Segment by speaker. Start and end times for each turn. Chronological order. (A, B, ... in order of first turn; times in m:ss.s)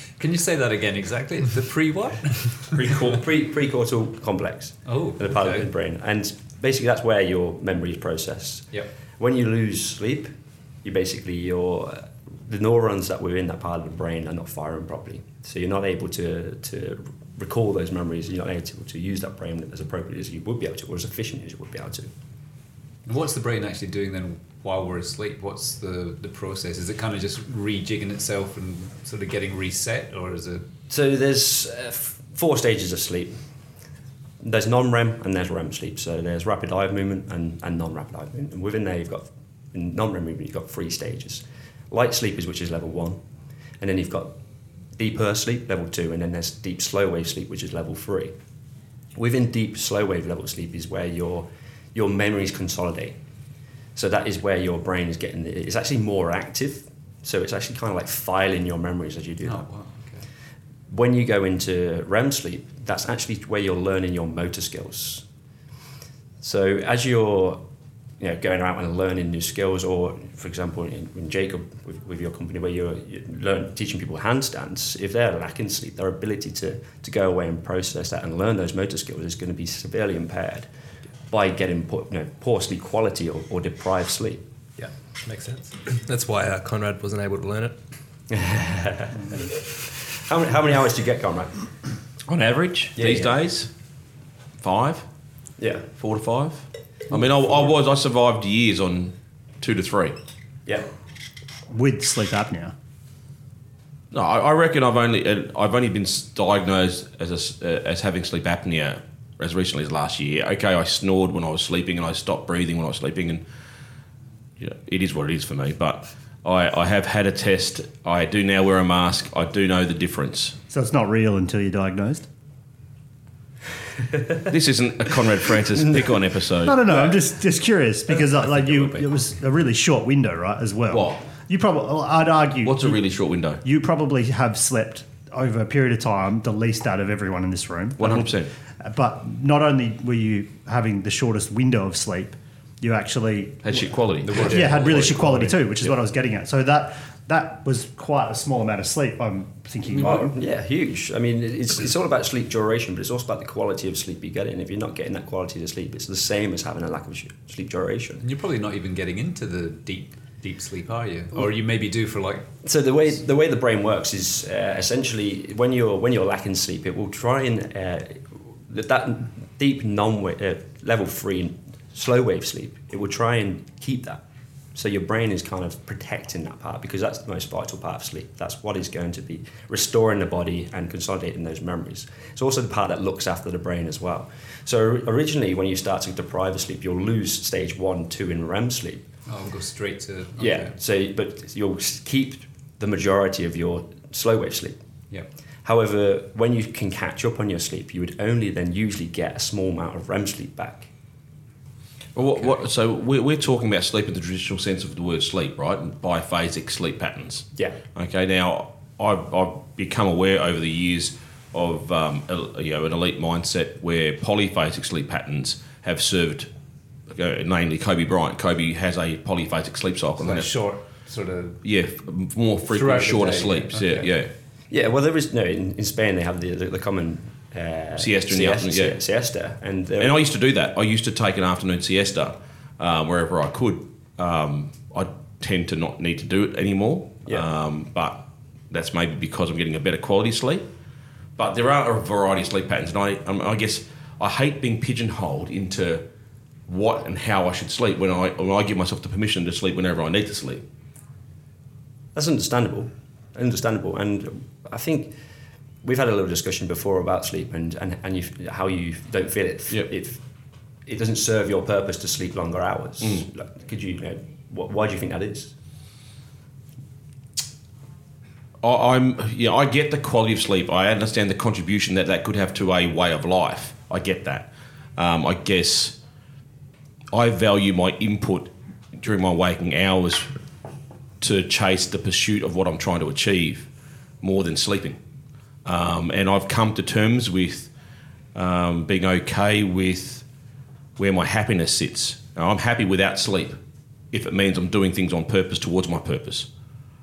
0:00.2-0:02.7 A
0:02.7-0:22.1 B
0:04.9-0:05.7 A
0:23.1-0:30.7 A
0:30.9-0:33.4 B
0:34.4-0:43.2 B
0:43.8-0:44.4 B
0:45.0-0:48.3 B
0:49.2-0:53.2 B
0:54.0-0:59.7 B
0:59.4-1:00.3 A
1:00.9-1:05.2 B
1:06.4-1:07.6 B
1:08.2-1:20.7 B
1:21.3-1:24.4 B
1:24.8-1:27.7 C
1:28.3-1:31.6 B
1:32.3-1:33.7 D
1:33.0-1:33.4 B
1:34.6-1:35.0 D
1:35.6-1:35.9 B
1:36.0-1:40.2 D
1:41.7-1:42.7 E
1:44.1-1:53.4 D
1:54.6-2:00.6 D
2:00.7-2:02.3 E
2:04.5-2:06.9 D
2:06.6-2:13.0 E
2:10.9-2:11.3 D
2:12.6-2:13.6 D
2:13.6-2:23.8 E
2:18.0-2:18.5 D
2:23.6-2:25.1 D
2:24.2-2:25.6 A
2:24.4-2:30.4 E
2:29.9-2:38.2 B
2:38.2-2:42.5 A
2:42.6-2:54.2 B
2:54.7-3:09.0 B
3:09.3-3:10.8 A
3:10.4-3:14.8 B
3:15.6-3:20.9 B
3:22.2-3:36.5 D
3:37.1-3:40.5 D
3:40.2-3:41.6 A
3:41.6-3:44.3 D
3:42.7-3:44.1 A
3:44.7-3:50.2 B
3:48.0-3:49.0 D
3:50.0-4:00.7 D
4:01.4-4:06.0 D
4:06.7-4:10.6 D
4:12.2-4:15.1 B
4:15.8-4:20.2 B
4:20.9-4:25.5 B
4:23.0-4:23.3 D
4:28.6-4:36.0 D
4:37.1-4:40.3 D
4:41.2-4:43.7 D
4:44.2-4:45.0 D
4:45.6-4:47.7 D
4:48.4-4:50.2 D
4:51.0-4:53.6 D
4:54.1-4:56.5 D